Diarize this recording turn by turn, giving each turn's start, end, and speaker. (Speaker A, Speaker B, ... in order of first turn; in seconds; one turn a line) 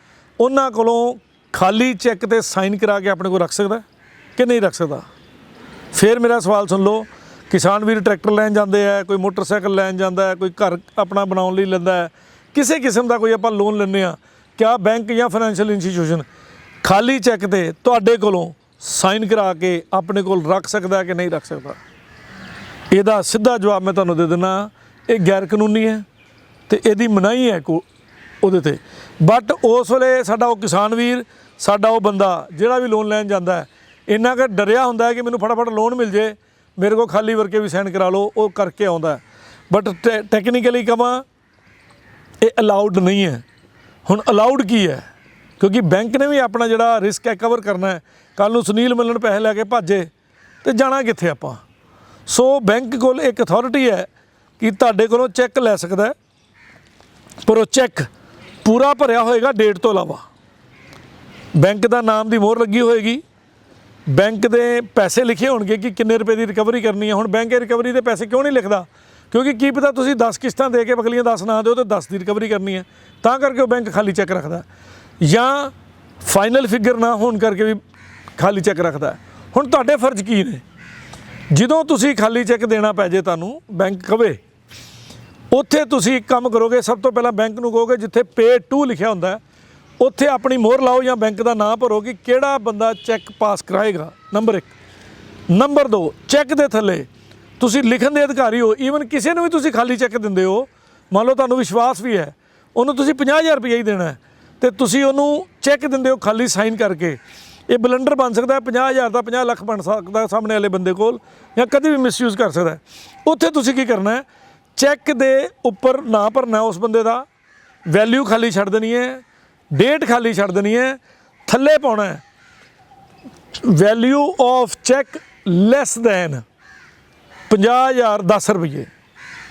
Speaker A: 0.4-3.8
Speaker A: 4.4-5.0
Speaker A: 5.9-16.3
Speaker A: 16.8-21.8
Speaker A: 22.9-26.0
Speaker A: 26.7-27.9
Speaker A: 28.4-41.2
Speaker A: 42.4-43.4
Speaker A: 44.1-45.0
Speaker A: 45.6-50.1
Speaker A: 50.6-51.6
Speaker A: 52.3-54.1
Speaker A: 54.6-56.1
Speaker A: 57.4-58.1
Speaker A: 58.6-60.2
Speaker A: 61.5-63.2
Speaker A: 64.1-74.7
Speaker A: 75.2-77.8
Speaker A: 78.4-80.6
Speaker A: 81.5-84.4
Speaker A: 85.5-89.4
Speaker A: 90.0-94.7
Speaker A: 95.5-97.1
Speaker A: 97.6-114.2
Speaker A: 114.8-117.2
Speaker A: 117.9-122.2
Speaker A: 123.6-126.4
Speaker A: 127.5-128.9